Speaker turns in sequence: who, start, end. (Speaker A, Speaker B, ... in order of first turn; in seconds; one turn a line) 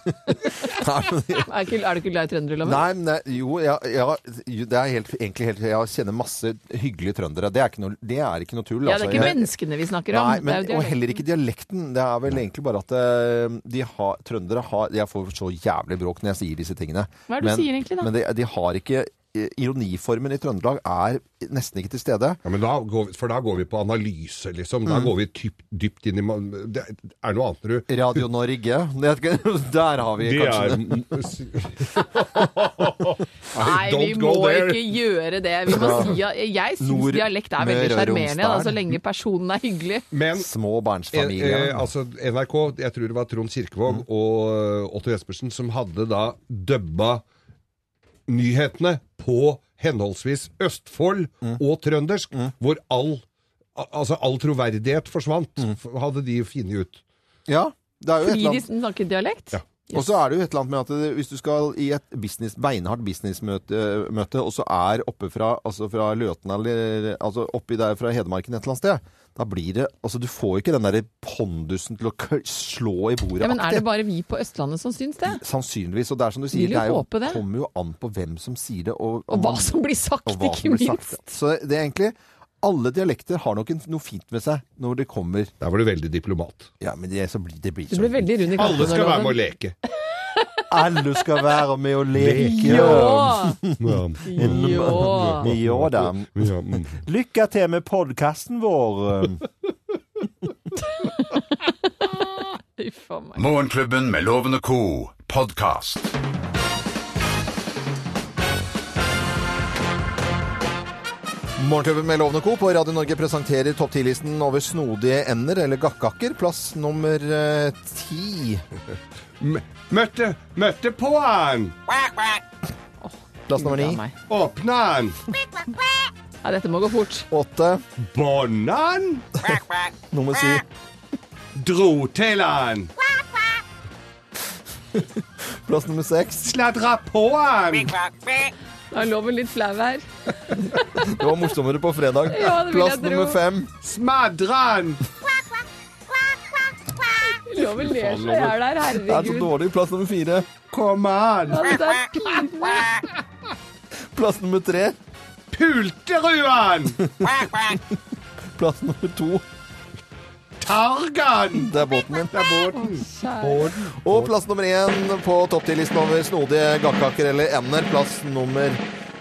Speaker A: 0.3-1.5
Speaker B: 1.4-2.8
Speaker A: 2.6-9.4
Speaker B: 8.8-11.2
Speaker A: 10.1-22.4
Speaker B: 17.3-18.1
Speaker C: 22.4-27.9
Speaker A: 27.9-31.0
Speaker C: 30.2-35.0
Speaker B: 33.5-40.0
Speaker A: 35.7-36.1
Speaker A: 36.8-38.8
Speaker C: 40.1-40.5
Speaker A: 40.3-41.8
Speaker C: 41.1-47.2
Speaker C: 48.3-53.2
Speaker C: 53.8-57.0
Speaker A: 57.5-58.6
Speaker B: 58.2-60.1
Speaker A: 59.9-73.8
Speaker B: 73.4-75.4
Speaker A: 75.2-79.7
Speaker B: 76.5-77.4
Speaker B: 79.3-81.3
Speaker A: 80.2-85.5
Speaker C: 85.6-86.7
Speaker A: 86.8-88.3
Speaker B: 87.9-89.4
Speaker C: 88.5-89.7
Speaker B: 90.3-90.6
Speaker A: 90.7-99.4
Speaker C: 92.2-93.2
Speaker B: 92.4-93.6
Speaker C: 93.8-97.0
Speaker B: 94.2-95.5
Speaker B: 102.0-103.4
Speaker D: 103.3-106.0
Speaker A: 111.6-118.6
Speaker C: 119.4-121.7
Speaker B: 123.0-124.1
Speaker A: 123.5-124.0
Speaker C: 124.3-125.1
Speaker B: 126.4-127.3
Speaker A: 127.3-127.8
Speaker C: 128.1-129.3
Speaker A: 130.1-130.6
Speaker C: 131.6-132.9
Speaker A: 134.9-136.5
Speaker C: 136.4-137.9
Speaker B: 138.9-140.0
Speaker B: 140.7-141.1
Speaker A: 141.0-143.7
Speaker B: 142.3-143.4
Speaker C: 143.8-145.0
Speaker B: 147.4-149.5
Speaker C: 147.8-148.6
Speaker A: 149.0-150.5
Speaker C: 150.6-151.7
Speaker B: 151.5-152.9
Speaker A: 154.1-154.9
Speaker C: 155.5-157.0
Speaker A: 157.0-157.8
Speaker A: 158.6-159.4
Speaker C: 160.6-161.7
Speaker A: 161.5-162.3
Speaker C: 162.3-164.3
Speaker B: 162.7-163.7
Speaker A: 164.0-168.8